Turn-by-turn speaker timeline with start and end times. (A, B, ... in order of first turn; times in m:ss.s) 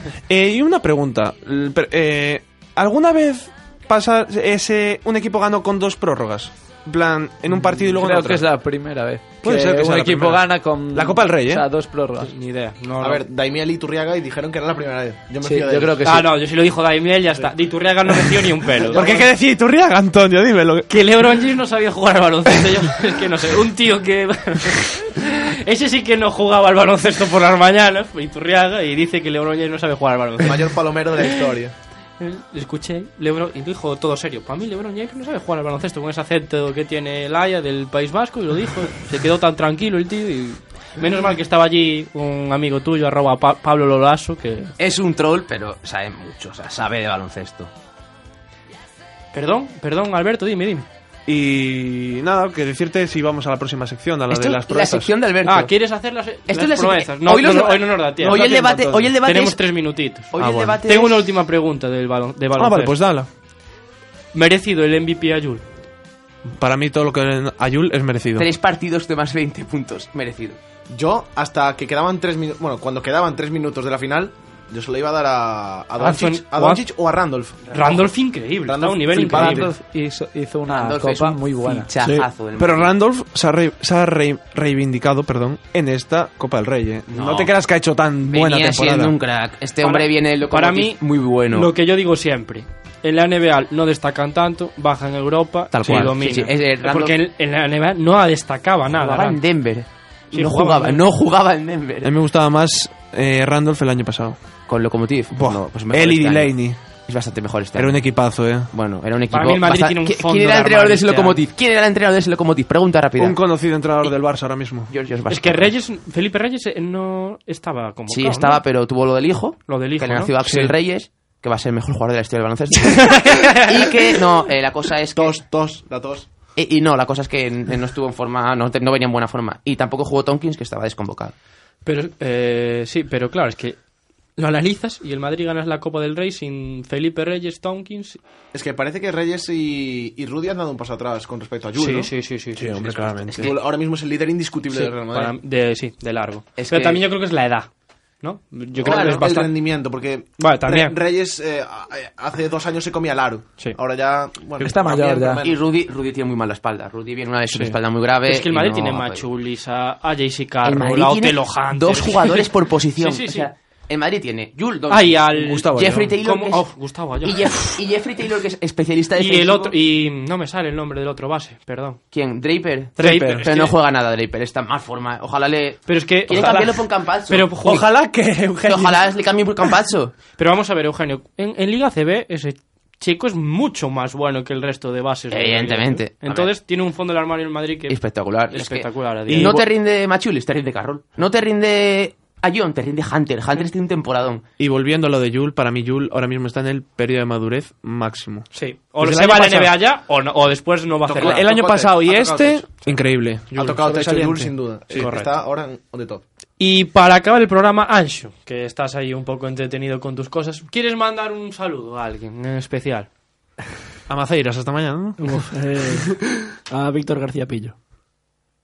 0:00.3-0:08.5 A
0:07.9-0:12.3 B
0:09.4-0:11.7 A
0:12.2-0:13.2 C
0:13.0-0:16.0 D
0:15.4-0:16.3 B
0:16.0-0:19.1 C
0:18.9-0:20.9 A
0:20.9-0:31.5 C
0:30.4-0:31.7 D
0:32.2-0:44.7 C
0:44.8-0:47.7 E
0:49.3-0:50.9 C
0:51.3-0:55.1 A
0:54.3-0:55.7 E
0:55.4-0:58.6 C
0:56.5-0:59.7 E
0:58.3-0:59.1 A
0:59.1-1:03.0 C
1:00.3-1:01.2 E
1:00.4-1:00.8 A
1:02.6-1:03.3 A
1:04.3-1:05.6 C
1:06.5-1:08.5 A
1:08.4-1:10.6 E
1:10.9-1:18.0 D
1:16.0-1:16.8 C
1:17.7-1:19.7 C
1:18.6-1:19.8 D
1:19.2-1:21.9 B
1:20.7-1:22.9 E
1:22.6-1:29.1 A
1:27.1-1:27.5 E
1:28.2-1:31.7 E
1:29.8-1:39.4 C
1:35.7-1:37.2 E
1:38.9-1:42.1 E
1:40.3-1:41.0 C
1:42.0-1:44.4 A
1:44.7-1:53.4 E
1:45.3-1:46.8 A
1:47.8-1:48.7 A
1:49.3-1:51.4 C
1:53.2-1:54.9 A
1:54.8-1:55.7 E
1:55.3-1:58.6 C
1:58.1-2:05.4 E
1:59.7-2:00.3 C
2:00.4-2:00.7 A
2:03.1-2:03.5 C
2:05.2-2:06.3 D
2:06.6-2:11.3 E
2:11.8-2:13.8 C
2:14.4-2:18.2 C
2:18.5-2:22.1 D
2:21.8-2:22.9 C
2:22.5-2:23.5 A
2:23.3-2:25.3 D
2:24.7-2:27.7 C
2:26.6-2:27.0 E
2:28.2-2:29.6 C
2:28.8-2:35.6 D
2:28.8-2:29.2 E
2:30.4-2:31.0 C
2:34.6-2:35.4 B
2:35.4-2:39.2 E
2:38.2-2:43.5 C
2:40.6-2:49.7 E
2:44.9-2:47.6 C
2:45.3-2:46.1 A
2:49.2-2:52.0 C
2:52.1-2:57.8 E
2:53.0-2:53.5 A
2:53.0-2:53.8 C
2:55.9-2:57.9 C
2:56.3-2:56.7 A
2:57.6-2:59.0 A
2:58.6-3:00.1 E
3:00.4-3:09.6 C
3:05.3-3:06.5 E
3:07.9-3:14.4 E
3:09.3-3:09.6 A
3:14.6-3:19.8 A
3:18.5-3:21.6 C
3:21.1-3:22.9 D
3:21.1-3:25.1 A
3:23.5-3:26.2 D
3:25.0-3:25.3 C
3:26.6-3:33.1 C
3:34.1-3:35.4 A
3:35.2-3:35.5 C
3:35.5-3:37.7 F